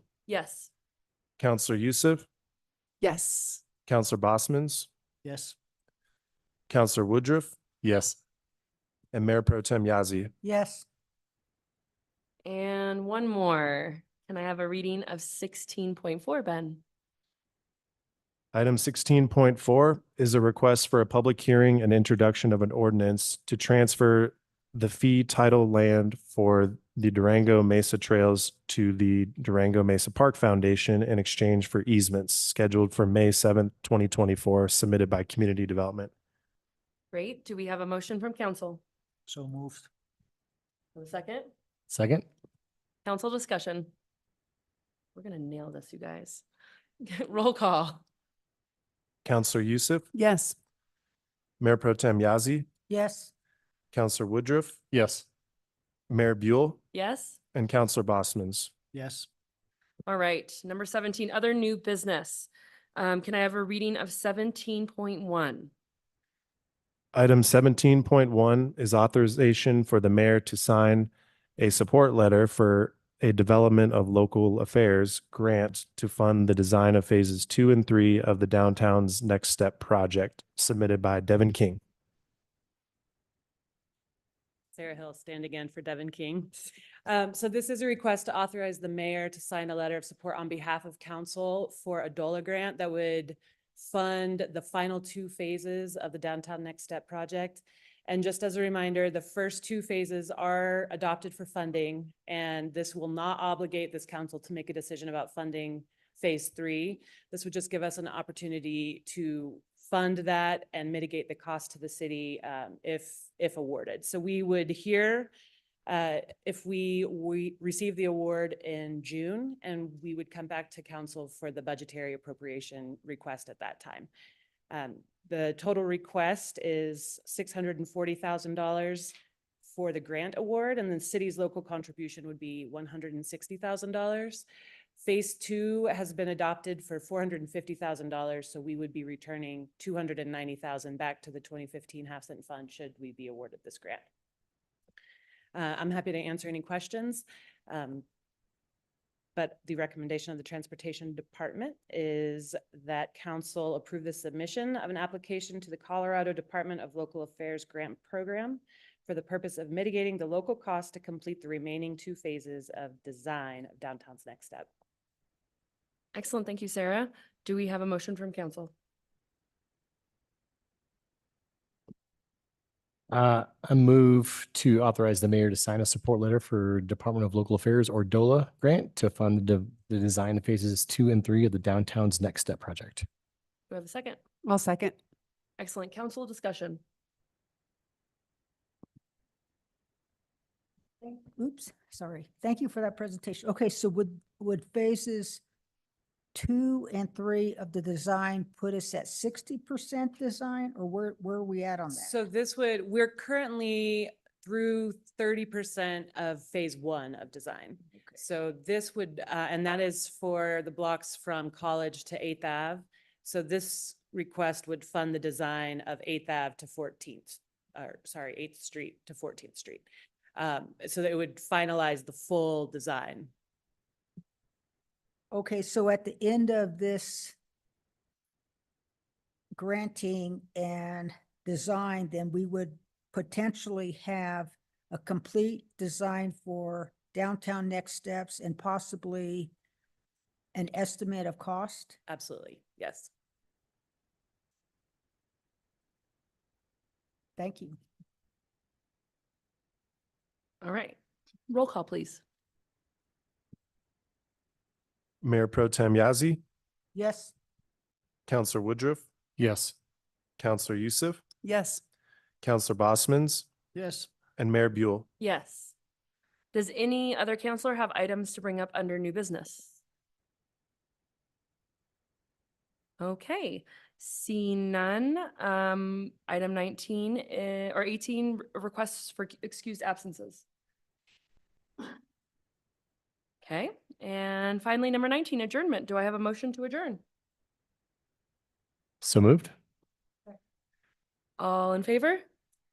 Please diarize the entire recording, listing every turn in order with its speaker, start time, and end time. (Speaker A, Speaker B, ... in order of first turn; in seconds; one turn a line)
Speaker A: 0.2-0.7
Speaker B: 1.4-2.2
Speaker C: 3.0-3.6
Speaker B: 3.8-4.9
Speaker B: 6.7-7.5
Speaker D: 7.8-8.2
Speaker B: 9.1-10.3
Speaker E: 10.4-10.8
Speaker A: 12.4-16.8
Speaker B: 18.5-36.1
Speaker A: 37.1-38.8
Speaker A: 40.9-41.5
Speaker D: 41.9-42.2
Speaker A: 43.0-43.9
Speaker A: 45.1-46.4
Speaker A: 47.0-48.0
Speaker B: 49.2-50.0
Speaker C: 50.1-50.5
Speaker B: 51.6-52.7
Speaker E: 52.9-53.3
Speaker B: 53.9-54.8
Speaker D: 54.9-55.2
Speaker B: 56.1-56.8
Speaker A: 56.9-57.4
Speaker B: 57.5-58.7
Speaker A: 60.1-65.7
Speaker B: 67.1-81.8
Speaker F: 84.7-86.5
Speaker F: 87.0-115.3
Speaker F: 115.9-124.1
Speaker F: 124.7-129.1
Speaker F: 129.7-134.4
Speaker F: 135.0-144.1
Speaker F: 145.5-148.0
Speaker F: 149.3-164.7
Speaker A: 166.1-168.7
Speaker D: 173.1-183.1
Speaker A: 183.7-184.2
Speaker C: 184.4-184.9
Speaker A: 185.6-186.8
Speaker E: 191.0-195.4
Speaker E: 196.3-202.1
Speaker F: 201.9-219.8
Speaker F: 220.3-223.3
Speaker E: 225.3-227.3
Speaker E: 229.6-239.5
Speaker E: 240.5-241.9
Speaker F: 242.1-243.1
Speaker E: 247.4-247.8
Speaker A: 250.6-251.0
Speaker A: 251.5-252.2
Speaker B: 255.2-256.4
Speaker E: 256.9-257.3
Speaker B: 258.3-259.0
Speaker D: 259.4-259.7
Speaker B: 260.4-261.2
Speaker C: 261.4-261.8
Speaker B: 262.4-263.5
Speaker B: 264.4-265.1
Speaker A: 265.2-265.7
Speaker A: 266.5-269.8
Speaker A: 273.0-280.4
Speaker A: 283.4-287.0
Speaker D: 289.0-289.5
Speaker A: 291.4-292.2